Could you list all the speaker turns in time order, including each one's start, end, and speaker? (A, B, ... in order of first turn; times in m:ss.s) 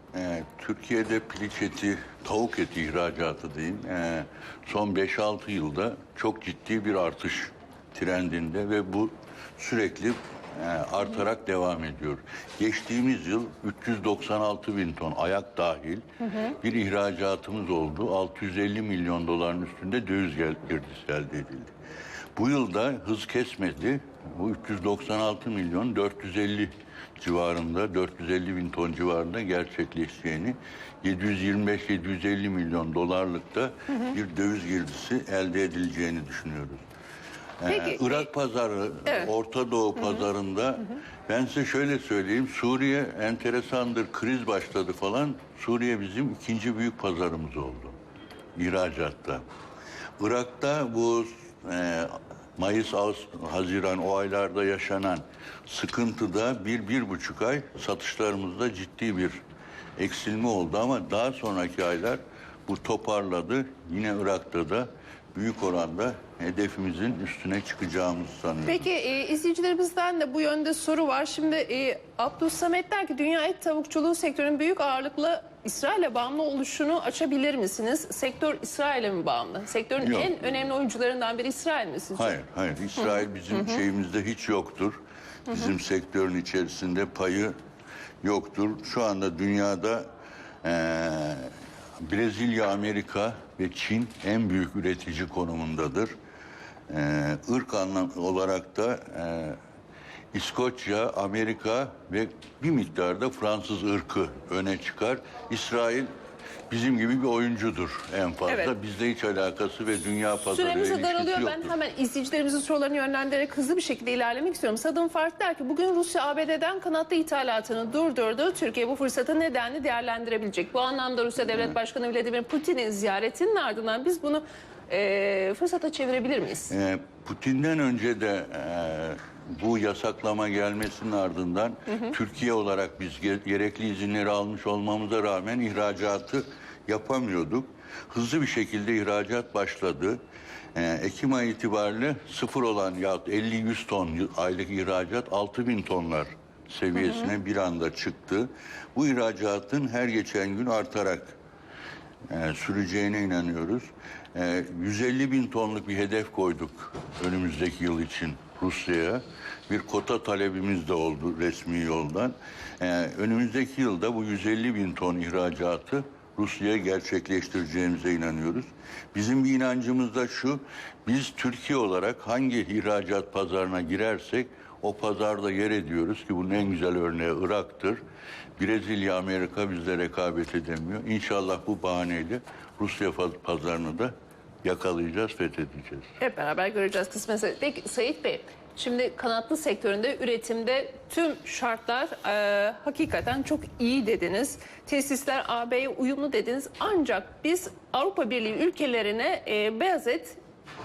0:00.1-0:21.7 A
0:22.4-0:36.8 A
0:37.6-0:47.9 A
0:37.6-0:38.3 B
0:39.0-0:39.3 B
0:40.0-0:40.2 B
0:48.6-0:49.4 A
0:50.2-0:59.4 A
1:00.0-1:08.9 A
1:08.6-1:22.4 B
1:20.0-1:20.5 A
1:22.2-1:27.5 A
1:23.0-1:23.8 B
1:28.2-1:30.1 A
1:30.6-1:36.1 A
1:36.9-1:39.6 A
1:40.3-1:46.1 A
1:46.7-1:51.7 A
1:50.4-2:06.7 B
2:06.7-2:20.2 A
2:11.9-2:12.1 B
2:20.7-2:31.4 A
2:27.0-2:27.3 B
2:32.3-2:58.0 A
2:58.6-3:04.1 A
3:04.6-3:06.1 A
3:06.2-3:20.4 B